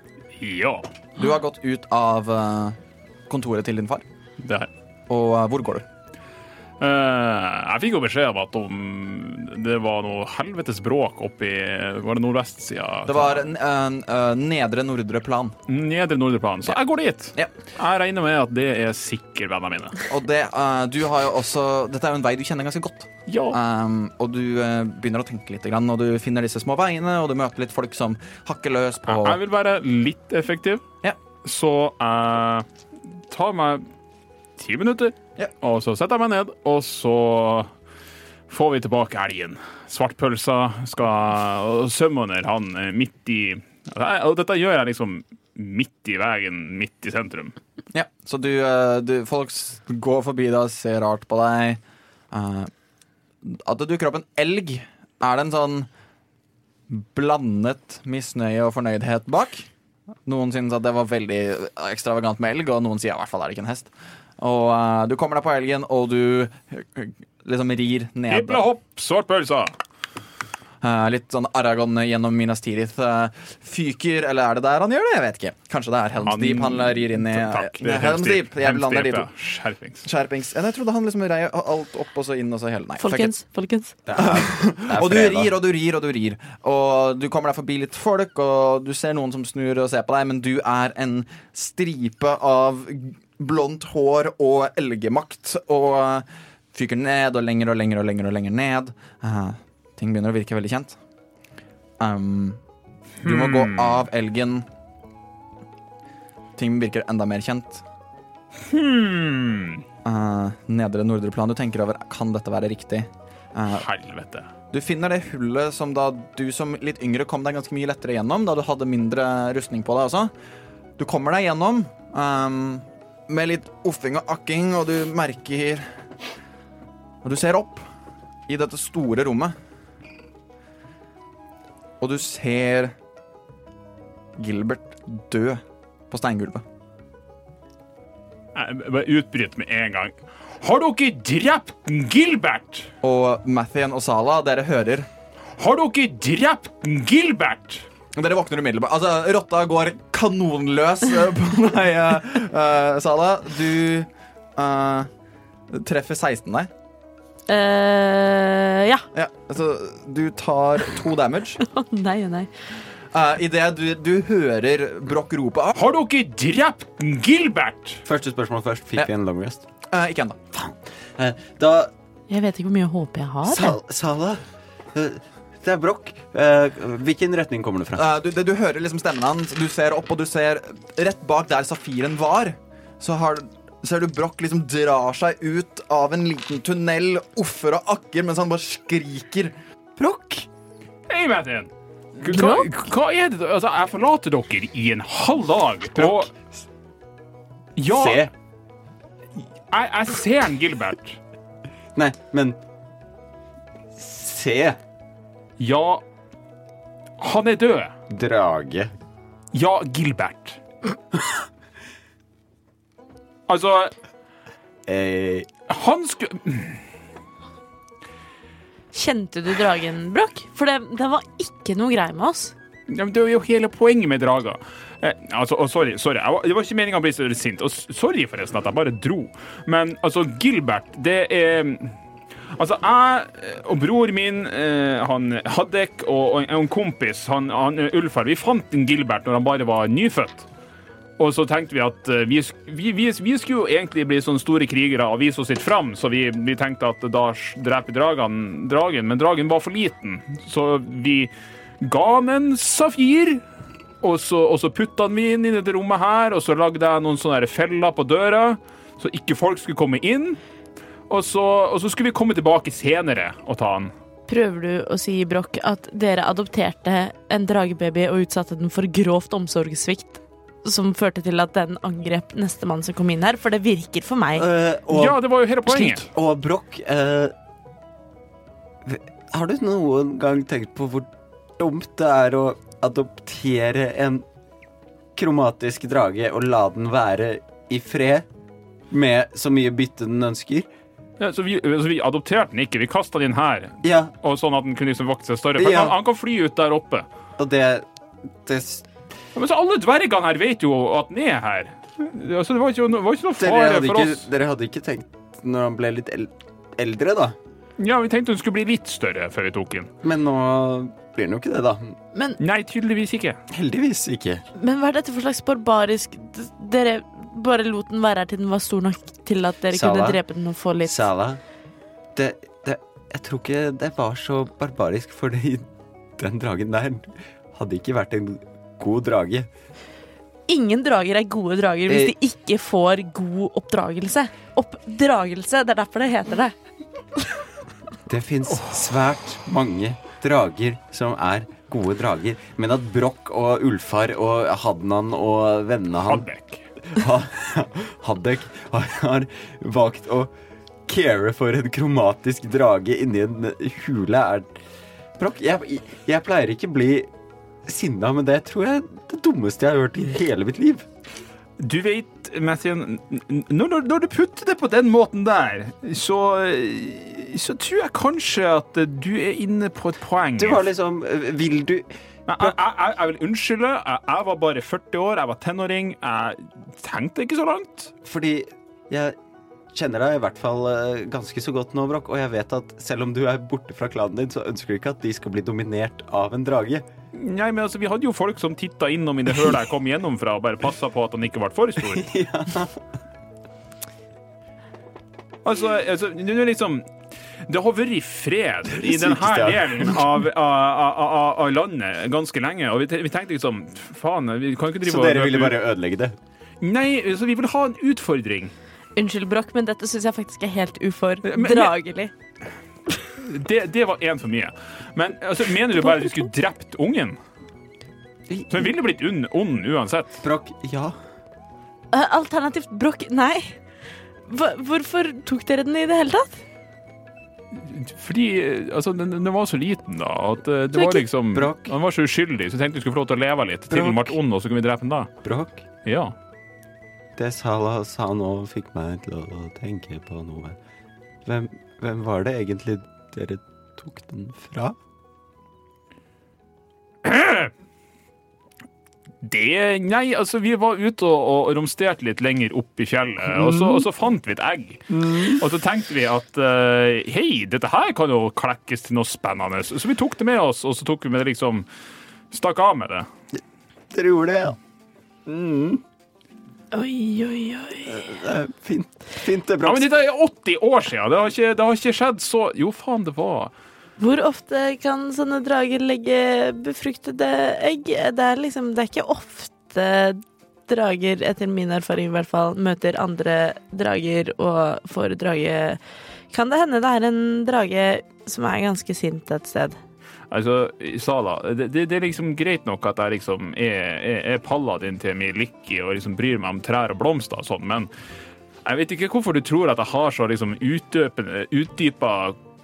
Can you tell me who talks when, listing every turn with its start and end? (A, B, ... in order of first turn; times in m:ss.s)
0:00.4-0:00.9 A
0:01.2-0:02.8 B
0:03.3-0:04.0 B
0:04.4-0:04.7 A
0:05.1-0:05.8 B
0:06.8-0:13.4 A
0:13.0-0:15.6 B
0:15.7-0:20.0 A
0:20.1-0:29.4 B
0:23.3-0:23.6 A
0:29.1-0:30.8 A
0:31.4-0:32.6 A
0:33.3-0:33.8 A
0:34.6-0:37.7 A
0:38.5-0:47.6 A
0:47.9-0:51.8 B
0:52.3-0:52.7 B
0:53.4-0:55.9 B
0:56.9-0:59.7 B
1:00.2-1:08.6 B
1:08.3-1:09.8 A
1:10.8-1:19.3 B
1:16.2-1:20.0 A
1:20.0-1:23.3 B
1:23.0-1:23.9 C
1:24.0-1:25.5 D
1:24.2-1:41.0 B
1:42.0-1:42.6 B
1:43.2-1:44.7 B
1:43.2-1:44.0 A
1:46.6-1:47.8 B
1:48.6-1:49.8 A
1:50.0-1:53.8 B
1:53.7-1:54.5 A
1:54.7-2:00.3 B
2:01.0-2:05.9 B
2:07.2-2:07.9 B
2:08.5-2:09.5 B
2:12.0-2:12.9 B
2:14.4-2:16.6 B
2:18.5-2:22.9 A
2:23.0-2:25.1 B
2:25.6-2:27.9 A
2:28.1-2:35.1 B
2:35.7-2:36.7 B
2:37.5-2:39.0 C
2:39.1-2:41.6 B
2:41.6-2:42.5 C
2:43.1-2:45.8 B
2:45.7-2:48.0 A
2:48.0-2:49.6 D
2:49.9-2:50.4 B
2:50.5-2:51.9 D
2:52.3-2:53.8 C
2:53.4-2:58.0 D
2:58.0-3:09.5 B
3:10.0-3:10.5 D
3:11.1-3:16.3 A
3:12.2-3:12.7 C
3:17.8-3:18.3 A
3:17.9-3:18.3 D
3:19.7-3:21.2 A
3:21.9-3:22.6 D
3:23.9-3:24.8 D
3:25.6-3:26.0 A
3:27.2-3:27.9 A
3:28.1-3:28.9 D
3:29.5-3:30.6 A
3:33.5-3:33.9 A
3:34.8-3:35.5 D
3:35.7-3:36.8 A
3:38.9-3:42.5 C
3:42.9-3:52.0 A
3:52.5-4:00.5 A
4:01.2-4:13.4 A
4:14.0-4:20.4 A
4:21.1-4:23.9 A
4:24.3-4:34.5 C
4:34.4-4:37.3 D
4:34.9-4:36.1 A
4:38.8-4:44.2 D
4:45.1-4:48.3 D
4:48.9-4:50.7 D
4:51.2-4:57.0 A
4:53.8-4:54.1 D
4:55.6-4:56.0 D
4:57.4-4:58.9 D
4:59.3-5:04.2 A
5:03.4-5:07.4 D
5:07.8-5:09.9 A
5:10.0-5:12.0 D
5:12.4-5:13.4 A
5:13.5-5:14.4 D
5:14.6-5:21.0 C
5:19.7-5:20.2 D
5:20.8-5:21.4 D
5:22.2-5:29.5 D
5:30.5-5:36.5 C
5:31.9-5:32.1 D
5:38.0-5:46.2 D
5:46.0-5:46.7 A
5:46.9-5:50.3 D
5:50.9-5:54.5 D
5:55.2-5:57.1 D
5:57.6-6:00.9 D
6:01.6-6:10.6 A
6:10.4-6:12.5 D
6:12.3-6:17.9 A
6:18.0-6:19.2 D
6:19.7-6:26.8 D
6:27.1-6:32.1 A
6:31.8-6:32.8 D
6:35.4-6:36.9 A
6:37.4-6:45.6 A
6:38.6-6:40.2 D
6:44.8-6:46.2 D
6:46.6-6:48.5 A
6:49.0-6:52.1 C
6:51.2-6:51.8 A
6:53.2-6:57.2 A
6:58.3-6:58.7 D
6:58.5-7:00.2 A
7:00.2-7:01.0 D
7:01.9-7:03.6 C
7:04.3-7:06.4 C
7:07.5-7:15.1 A
7:10.7-7:11.0 C
7:11.3-7:11.7 D
7:13.7-7:14.2 D
7:15.2-7:15.6 D
7:15.8-7:16.1 A
7:17.2-7:20.6 D
7:21.2-7:24.8 D
7:27.0-7:27.5 A
7:29.2-7:41.6 A
7:33.3-7:33.8 D
7:34.9-7:35.4 D
7:42.3-7:43.1 A
7:43.3-7:44.6 D
7:45.2-7:45.8 D
7:46.7-7:48.0 C
7:47.8-7:49.9 D
7:49.6-7:53.5 A
7:54.0-8:09.8 C
8:10.3-8:17.9 A
8:18.6-8:22.4 A